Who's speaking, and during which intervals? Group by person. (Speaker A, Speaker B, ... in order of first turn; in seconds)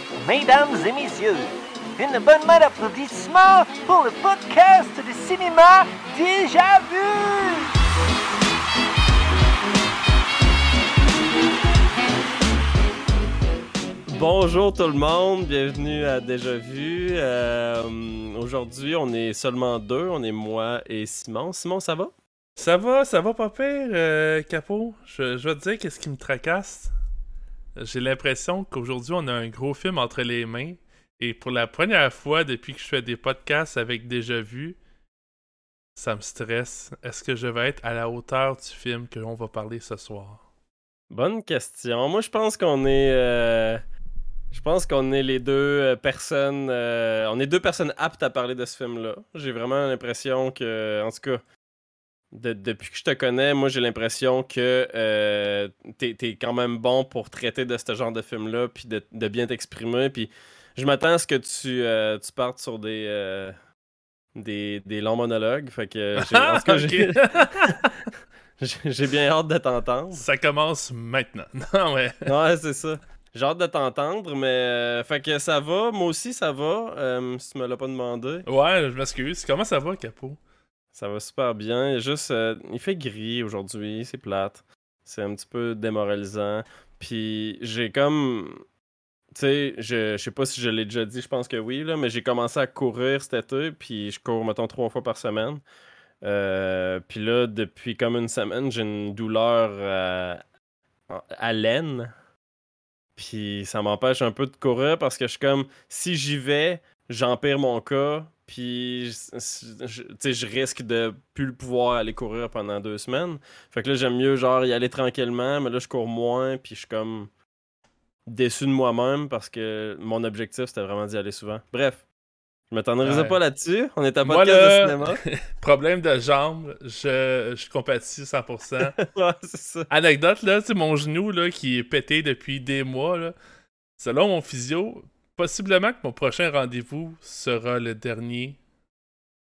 Speaker A: 0.2-7.7
Speaker B: 14.1-22.1, 41.1-43.8, 44.5-51.4, 52.3-63.5, 64.3-67.9, 68.6-70.2, 72.2-78.4, 80.9-88.6, 89.3-95.6, 96.2-100.4, 101.1-102.1, 103.2-117.3, 118.3-122.0, 122.7-125.2, 128.9-129.9
Speaker C: 22.6-26.9, 27.8-34.8, 36.0-40.4, 66.2-67.9, 70.2-72.3, 78.5-80.4, 123.0-123.4, 124.2-128.9, 129.9-133.3, 134.0-138.6